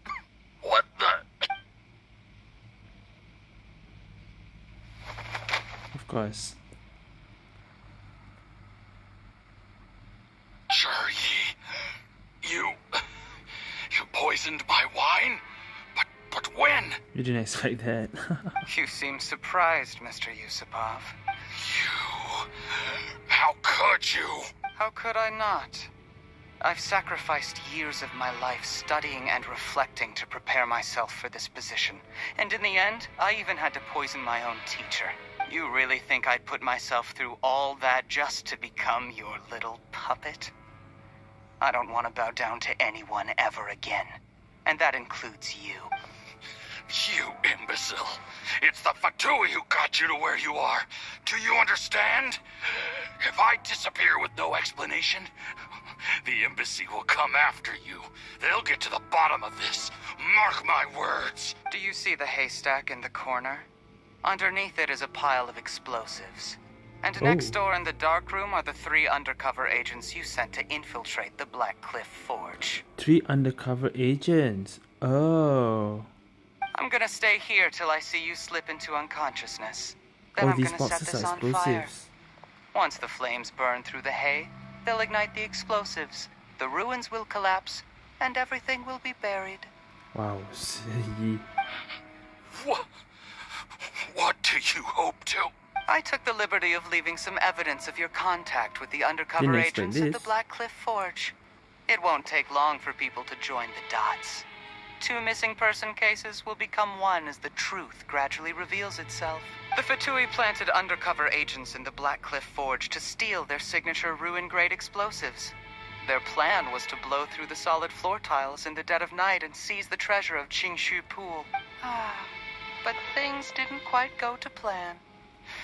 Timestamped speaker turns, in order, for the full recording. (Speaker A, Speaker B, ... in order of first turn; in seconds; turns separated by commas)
Speaker A: 0.6-1.3, Speaker B: 5.9-6.6, Speaker A: 10.7-11.6, Speaker A: 12.4-13.0, Speaker A: 13.9-15.4, Speaker A: 16.0-17.0, Speaker B: 17.1-18.6, Speaker C: 18.7-21.2, Speaker A: 21.6-24.5, Speaker C: 24.8-25.9, Speaker C: 26.6-40.5, Speaker C: 41.6-45.9, Speaker A: 46.9-55.3, Speaker A: 56.2-61.6, Speaker C: 61.7-63.7, Speaker C: 64.2-72.8, Speaker B: 67.2-67.6, Speaker B: 73.0-76.1, Speaker C: 76.7-81.9, Speaker B: 80.4-82.1, Speaker C: 82.7-89.7, Speaker B: 90.1-91.5, Speaker A: 92.5-92.9, Speaker A: 93.8-95.5, Speaker C: 95.9-101.3, Speaker B: 99.4-100.3, Speaker C: 101.9-104.5, Speaker C: 105.0-125.0